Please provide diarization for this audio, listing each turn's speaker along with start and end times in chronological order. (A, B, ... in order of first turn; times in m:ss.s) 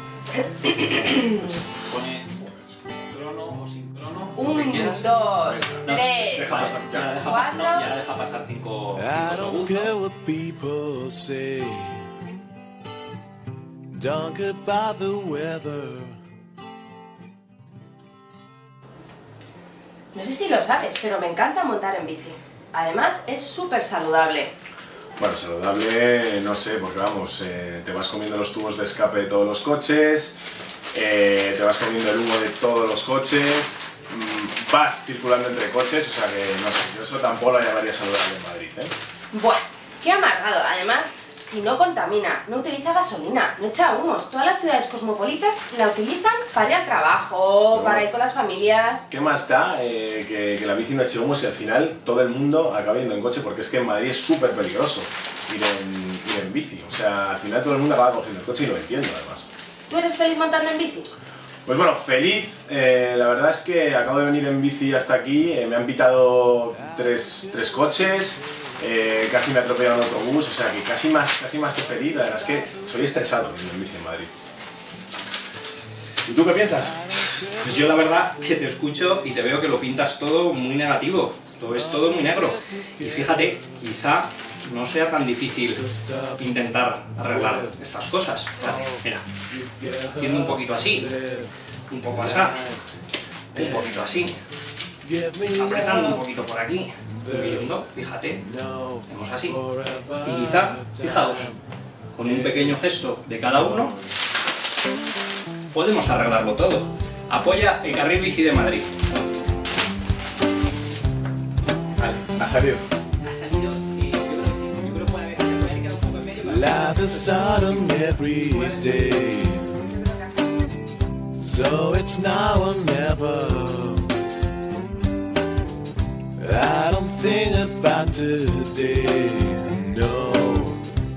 0:00.6-0:01.3 A
0:01.5-0:02.8 B
0:01.9-0:02.2 C
0:03.1-0:05.2 C
0:04.4-0:07.9 A
0:05.4-0:07.1 B
0:05.8-0:09.9 C
0:08.9-0:12.1 D
0:13.9-0:16.2 D
0:20.1-0:24.5 A
0:25.2-0:30.4 B
0:30.9-0:38.9 B
0:39.3-0:49.0 A
0:47.7-0:48.1 B
0:49.1-0:59.5 B
0:59.9-1:01.1 A
1:01.6-1:14.3 B
1:06.7-1:09.5 D
1:11.8-1:13.2 D
1:16.2-1:17.0 B
1:17.2-1:18.8 D
1:17.4-1:29.2 C
1:21.6-1:23.8 D
1:25.7-1:26.5 D
1:27.2-1:27.8 D
1:28.6-1:31.5 D
1:30.0-1:31.1 C
1:31.9-1:32.8 C
1:32.1-1:32.8 D
1:33.5-1:34.4 C
1:33.5-1:34.0 D
1:35.0-1:36.3 D
1:35.5-1:38.4 C
1:37.0-1:41.6 D
1:39.1-1:41.5 C
1:42.1-1:43.9 C
1:45.7-1:48.9 C
1:52.0-1:52.2 C
1:52.3-1:52.8 B
1:53.2-1:59.1 C
1:56.4-1:59.8 D
2:01.4-2:04.2 D
2:06.4-2:10.9 D